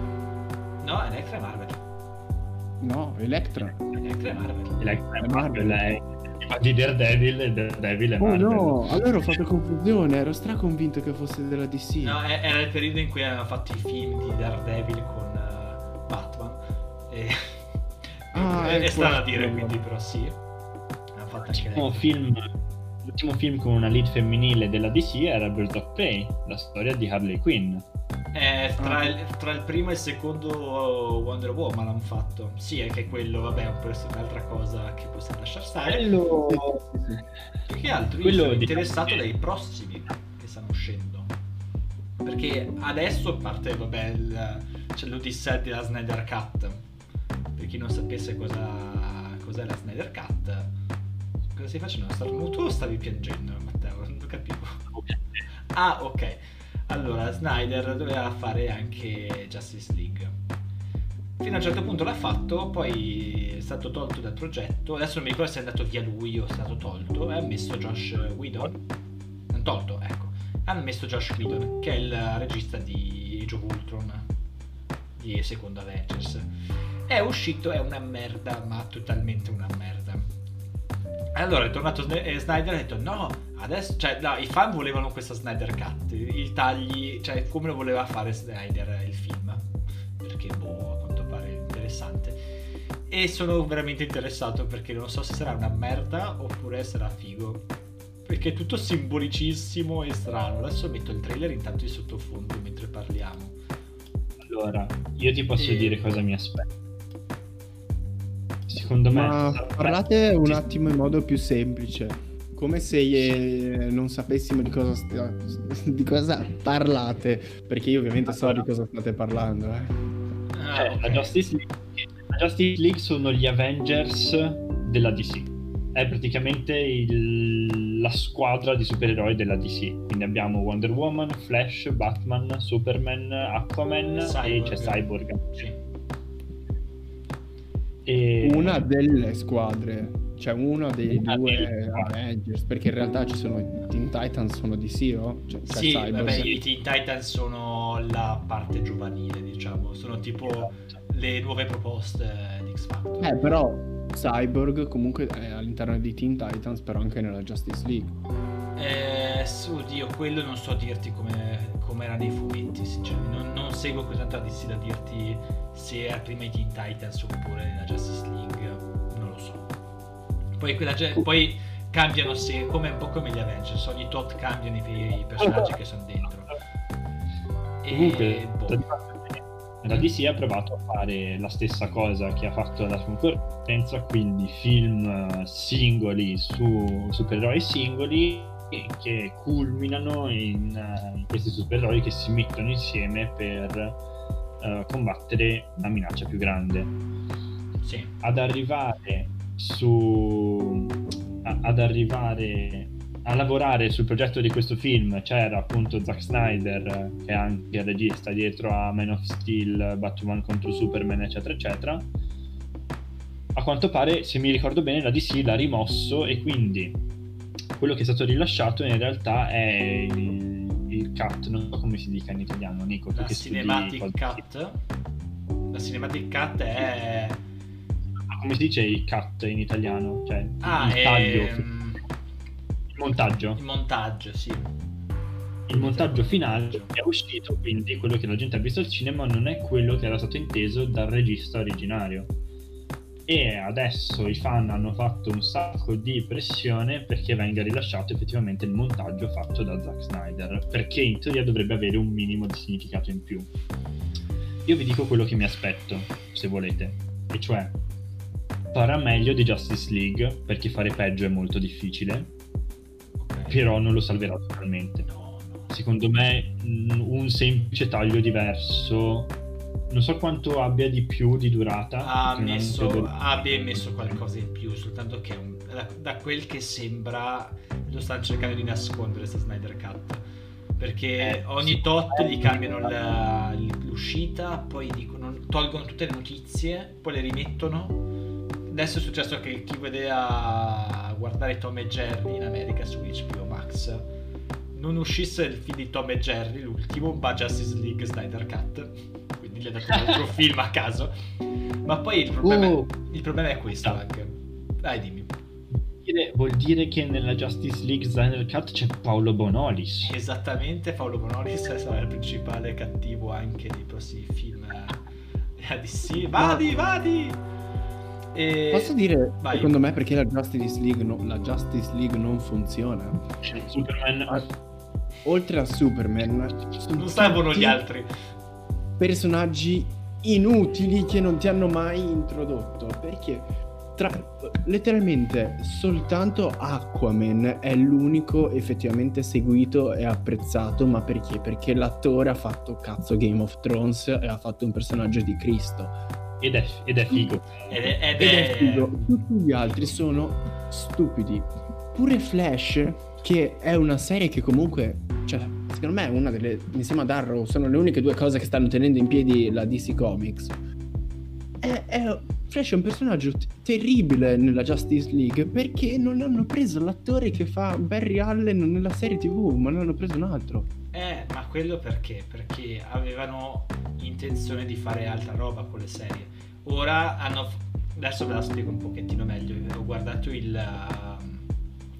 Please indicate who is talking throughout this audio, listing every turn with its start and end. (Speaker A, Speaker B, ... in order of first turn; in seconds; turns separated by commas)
Speaker A: 0.8-1.8, Speaker B: 2.8-3.9, Speaker A: 3.9-4.8, Speaker C: 4.8-9.3, Speaker B: 5.2-5.8, Speaker B: 8.2-12.2, Speaker A: 12.0-17.6, Speaker B: 18.3-19.8, Speaker A: 18.3-20.4, Speaker A: 21.1-22.1, Speaker C: 21.5-22.5, Speaker C: 23.0-27.8, Speaker A: 28.3-36.0, Speaker B: 28.8-29.1, Speaker C: 35.8-36.9, Speaker B: 36.5-37.2, Speaker A: 37.7-41.3, Speaker C: 38.2-39.2, Speaker A: 42.2-46.8, Speaker A: 47.5-50.7, Speaker A: 51.5-54.9, Speaker C: 55.0-55.4, Speaker A: 55.7-60.4, Speaker A: 61.4-68.8, Speaker A: 69.5-74.3, Speaker A: 75.2-76.5, Speaker A: 77.1-80.3, Speaker A: 81.3-89.7, Speaker A: 90.2-92.4, Speaker A: 93.1-97.7, Speaker A: 98.2-103.6, Speaker C: 104.4-106.7, Speaker A: 105.6-106.0, Speaker C: 108.7-110.6, Speaker B: 109.1-120.0, Speaker C: 118.3-118.6, Speaker A: 120.5-121.4, Speaker C: 120.8-135.7, Speaker A: 134.2-135.8, Speaker C: 138.0-138.8, Speaker B: 138.4-146.6, Speaker C: 141.1-142.1, Speaker A: 145.7-153.4, Speaker B: 153.2-158.2, Speaker A: 158.8-169.7, Speaker A: 170.6-176.6, Speaker C: 175.4-175.7, Speaker A: 177.8-178.8, Speaker C: 177.9-194.0, Speaker C: 194.6-196.9, Speaker A: 197.8-198.1, Speaker C: 198.2-212.1, Speaker C: 213.5-217.0, Speaker C: 217.8-224.4, Speaker A: 223.1-224.8, Speaker A: 225.7-227.4, Speaker C: 228.3-231.7, Speaker A: 230.6-232.0, Speaker C: 232.9-233.6, Speaker A: 233.6-234.7, Speaker C: 235.7-242.3, Speaker A: 235.7-236.9, Speaker C: 243.3-253.5, Speaker C: 254.7-257.7, Speaker C: 258.7-262.3, Speaker A: 263.2-263.6, Speaker C: 263.5-265.1, Speaker A: 265.1-265.7, Speaker C: 265.7-269.3, Speaker C: 269.9-274.2, Speaker A: 272.0-280.2, Speaker A: 280.8-288.0, Speaker C: 281.2-282.9, Speaker A: 288.7-294.1, Speaker A: 294.7-301.1, Speaker A: 301.8-305.3, Speaker C: 302.4-302.9, Speaker C: 306.0-310.1, Speaker A: 310.0-315.0, Speaker A: 315.6-317.4, Speaker B: 316.4-316.6, Speaker A: 318.3-319.8, Speaker B: 318.7-323.2, Speaker C: 323.4-324.4, Speaker B: 325.2-327.8, Speaker A: 326.9-328.1, Speaker B: 329.0-345.9, Speaker C: 346.4-347.9, Speaker A: 347.7-349.2, Speaker B: 348.2-360.6, Speaker B: 361.6-370.7, Speaker A: 370.9-381.4